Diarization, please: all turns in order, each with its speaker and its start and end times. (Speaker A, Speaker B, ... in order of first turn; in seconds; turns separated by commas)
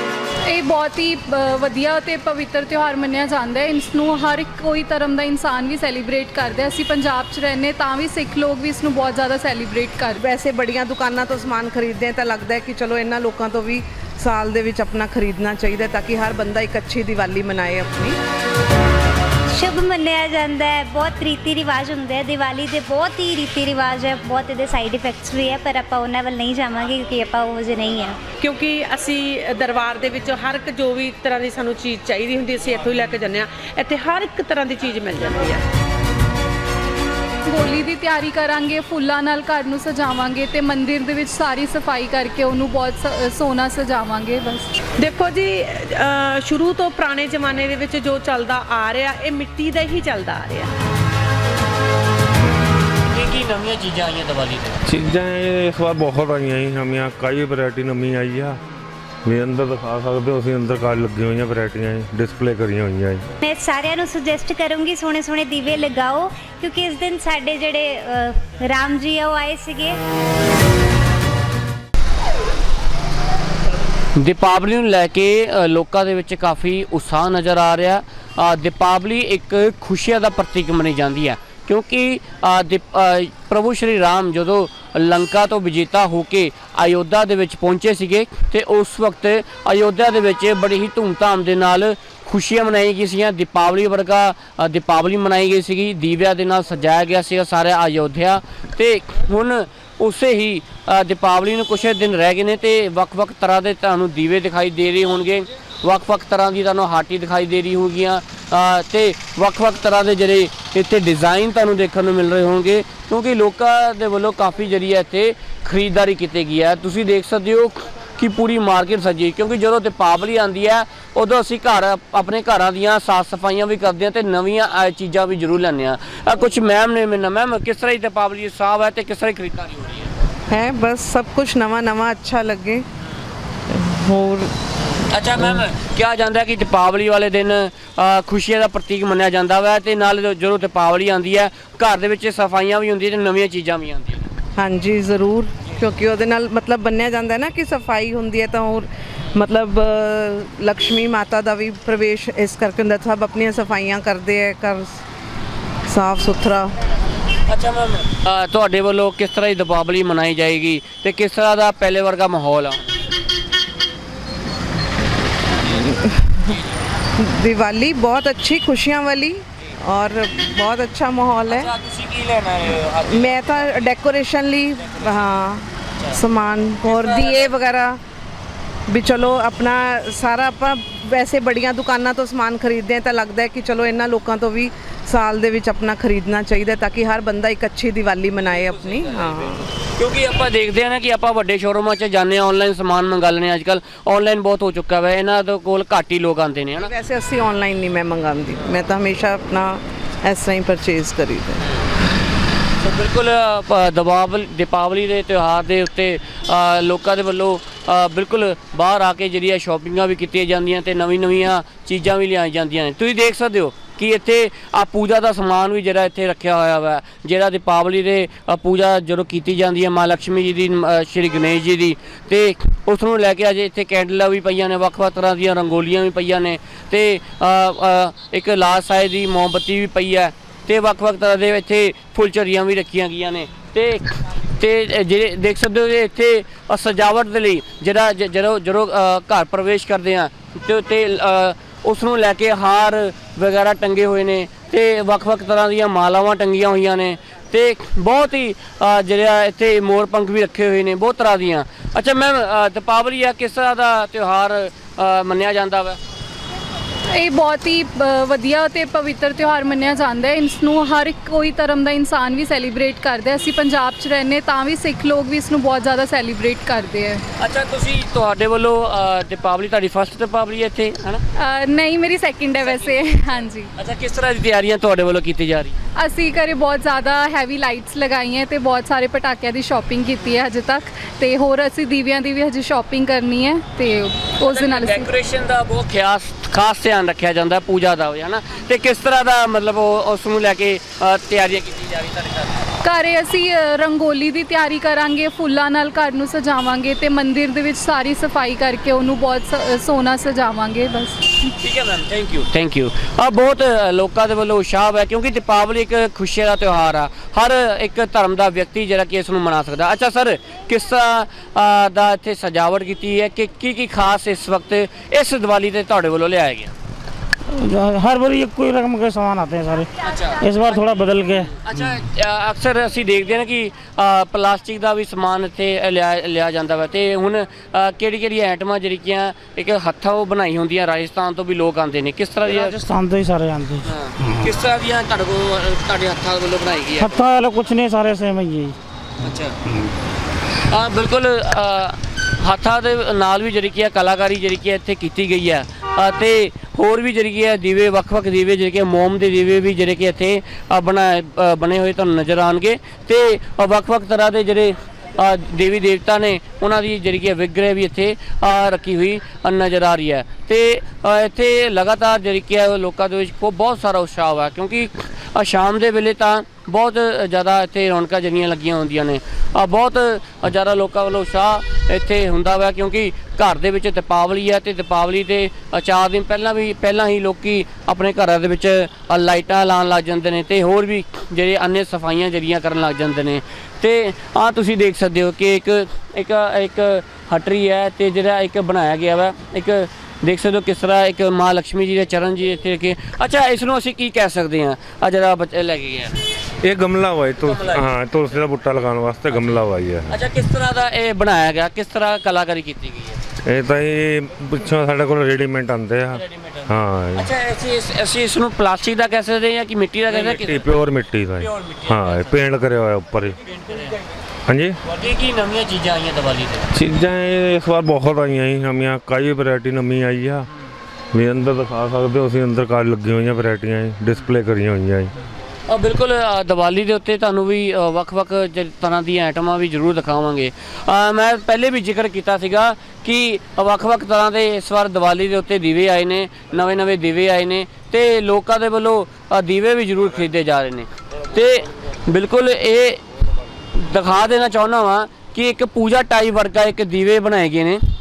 Speaker A: 0.5-10.2, Speaker B: 10.2-18.2, Speaker C: 19.5-28.2, Speaker D: 28.4-35.6, Speaker A: 37.5-44.7, Speaker D: 45.0-50.7, Speaker E: 53.1-54.8, Speaker F: 54.9-58.6, Speaker F: 59.2-63.3, Speaker C: 63.4-70.0, Speaker E: 74.2-130.1, Speaker B: 130.5-132.8, Speaker B: 133.7-134.5, Speaker E: 134.9-144.3, Speaker B: 144.6-155.0, Speaker B: 155.9-156.7, Speaker E: 157.5-162.8, Speaker B: 165.6-166.5, Speaker B: 167.2-171.7, Speaker E: 171.5-173.8, Speaker B: 173.1-178.0, Speaker E: 174.8-175.2, Speaker E: 176.8-177.5, Speaker B: 178.9-189.6, Speaker E: 188.6-196.9, Speaker B: 196.8-201.6, Speaker E: 202.8-256.0, Speaker A: 257.1-267.2, Speaker E: 267.4-271.2, Speaker A: 271.4-273.7, Speaker E: 272.6-275.8, Speaker A: 276.0-285.1, Speaker E: 284.4-292.7, Speaker A: 292.8-301.4, Speaker E: 301.6-316.7, Speaker G: 317.5-321.5, Speaker E: 320.0-332.8, Speaker G: 332.5-333.9, Speaker E: 333.8-337.2, Speaker G: 337.0-338.8, Speaker E: 339.2-339.6, Speaker E: 340.7-396.2, Speaker F: 396.6-400.1, Speaker E: 397.4-397.9, Speaker E: 399.3-403.2, Speaker F: 403.4-407.3, Speaker E: 406.1-412.5, Speaker F: 410.1-413.4, Speaker E: 413.4-414.0, Speaker F: 414.5-414.8, Speaker E: 414.9-416.7, Speaker F: 416.7-420.5, Speaker F: 421.1-425.1, Speaker E: 425.7-443.0, Speaker E: 443.8-447.8